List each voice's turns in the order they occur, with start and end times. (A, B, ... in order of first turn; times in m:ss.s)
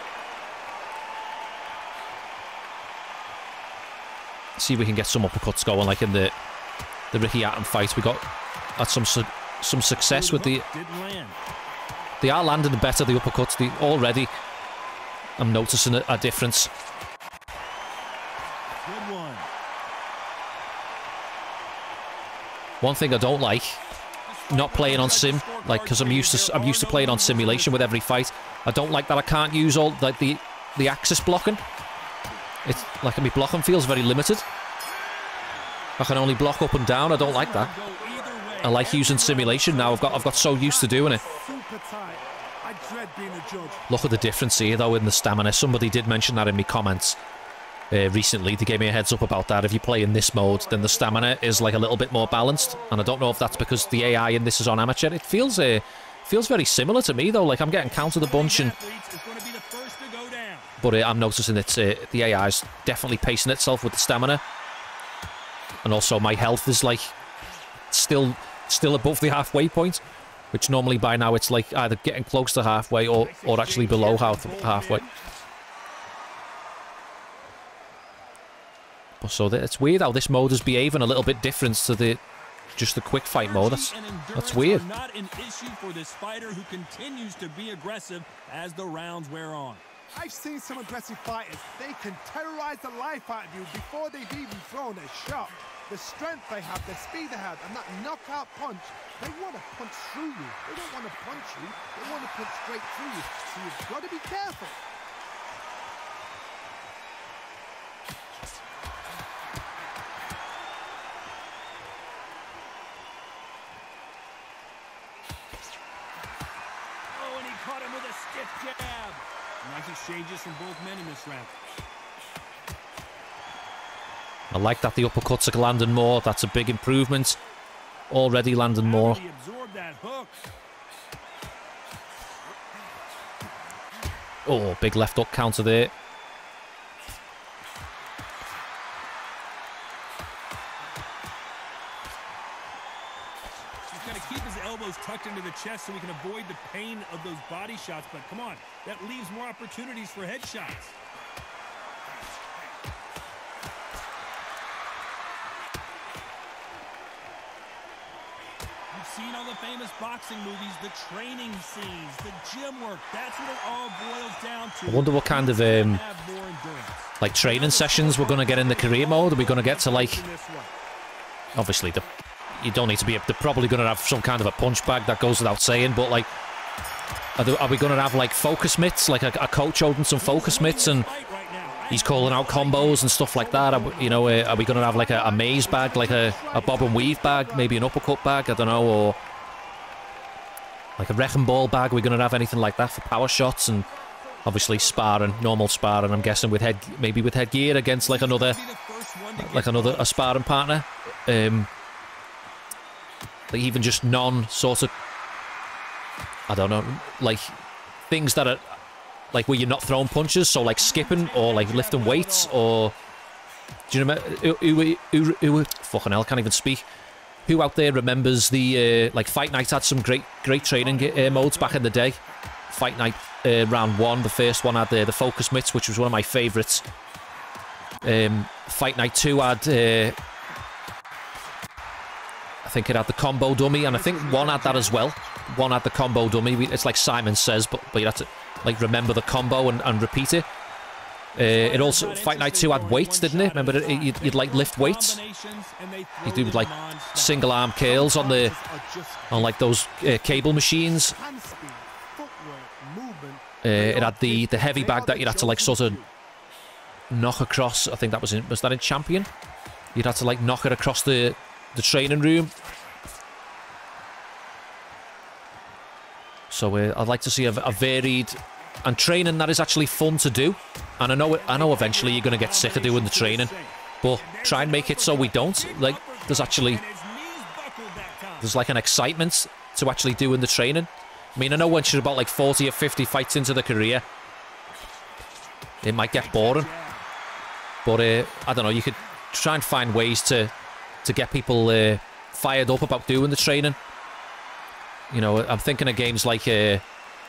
0:04.6-0:06.3 A
0:07.1-0:08.2 A
0:08.8-0:10.6 A
0:10.1-0:11.4 B
0:12.2-0:14.3 A
0:15.4-0:16.7 A
0:18.8-0:19.5 B
0:22.8-0:23.8 A
0:24.2-0:27.9 B
0:24.5-0:31.6 A
0:32.6-0:34.4 A
0:36.0-0:37.7 A
0:37.0-0:40.5 B
0:38.6-0:41.2 A
0:39.3-0:43.9 C
0:43.9-0:47.2 A
0:47.9-0:58.8 A
0:57.8-1:00.7 B
1:00.8-1:04.4 A
1:05.8-1:07.1 A
1:07.9-1:15.0 A
1:13.1-1:15.1 B
1:19.2-1:22.2 A
1:22.8-1:24.8 A
1:23.3-1:29.8 B
1:30.1-1:44.8 C
1:57.1-2:01.6 B
2:04.5-2:07.4 A
2:08.1-2:09.2 A
2:08.7-2:10.4 B
2:14.4-2:15.9 A
2:23.9-2:31.0 B
2:38.9-2:50.7 B
2:44.8-2:46.0 A
2:47.2-2:50.2 A
2:51.5-2:56.3 A
2:57.4-3:01.1 A
3:00.2-3:03.2 B
3:01.9-3:09.2 A
3:03.2-3:07.8 C
3:11.0-3:13.9 A
3:14.4-3:18.6 A
3:18.0-3:20.4 B
3:19.4-3:21.7 A
3:23.5-3:24.9 A
3:26.5-3:27.6 A
3:28.1-3:28.8 A
3:29.3-3:33.0 A
3:30.8-3:32.6 B
3:33.9-3:36.8 A
3:37.4-3:46.9 A
3:40.5-3:41.9 B
3:48.0-3:50.2 A
3:52.6-4:00.5 A
3:53.8-3:55.1 B
4:01.3-4:05.2 A
4:01.4-4:07.5 B
4:06.2-4:08.5 A
4:07.8-4:16.1 C
4:09.3-4:11.2 A
4:13.6-4:16.0 A
4:17.1-4:19.3 A
4:19.9-4:22.5 A
4:26.5-4:36.8 A
4:31.3-4:38.6 B
4:38.4-4:44.0 A
4:45.8-4:46.7 A
4:46.1-4:47.0 B
4:47.8-4:50.5 A
4:51.0-4:53.8 A
4:55.1-4:56.8 A